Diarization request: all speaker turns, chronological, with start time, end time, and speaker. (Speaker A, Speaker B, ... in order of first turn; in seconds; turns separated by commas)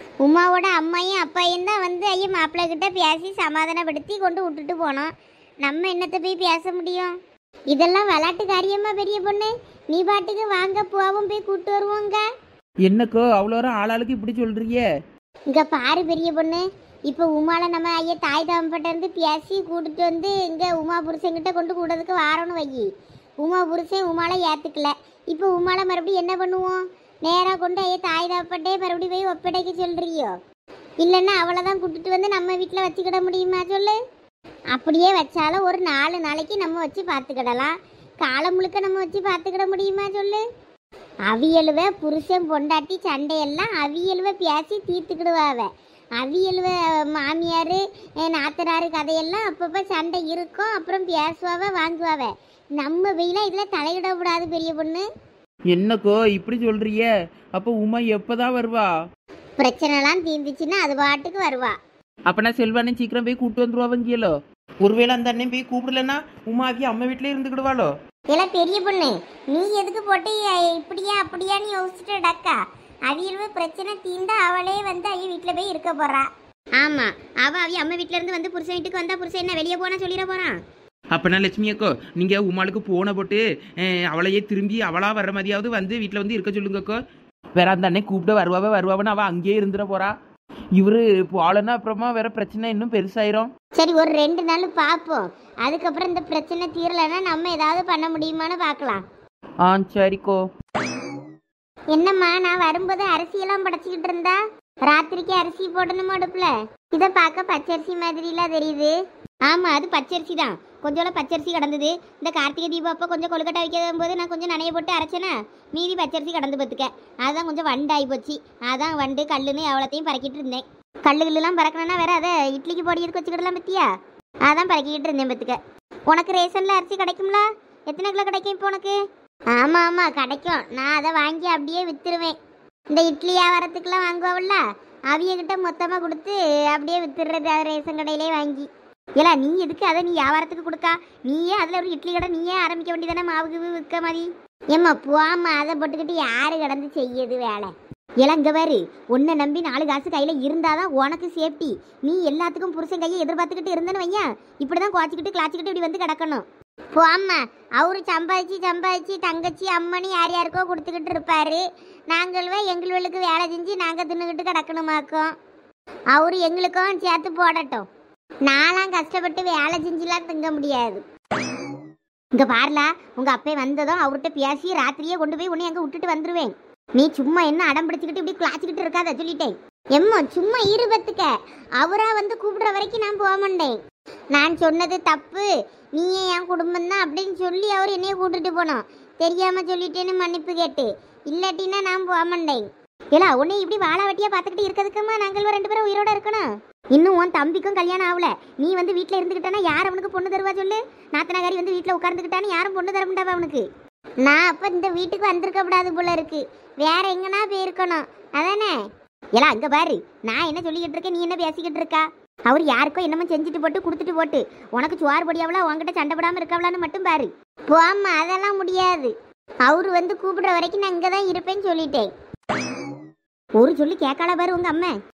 Speaker A: 0.2-5.1, Speaker A: 5.6-7.1, Speaker A: 7.7-12.2, Speaker B: 12.8-14.8, Speaker A: 15.5-22.9, Speaker A: 23.4-30.3, Speaker A: 31.0-34.0, Speaker A: 34.7-40.4, Speaker A: 41.3-55.0, Speaker B: 55.7-58.9, Speaker A: 59.6-61.8, Speaker B: 62.3-67.9, Speaker A: 68.3-80.6, Speaker B: 81.1-87.0, Speaker B: 87.6-90.1, Speaker B: 90.8-93.5, Speaker A: 93.8-99.0, Speaker B: 99.6-100.4, Speaker A: 101.9-108.9, Speaker A: 109.5-123.9, Speaker A: 124.5-129.0, Speaker A: 129.5-132.3, Speaker A: 132.9-165.3, Speaker A: 166.1-167.8, Speaker A: 168.4-171.0, Speaker A: 172.3-183.8, Speaker A: 184.3-203.6, Speaker A: 204.2-208.8, Speaker A: 209.3-219.1, Speaker A: 219.7-222.1, Speaker A: 223.6-224.9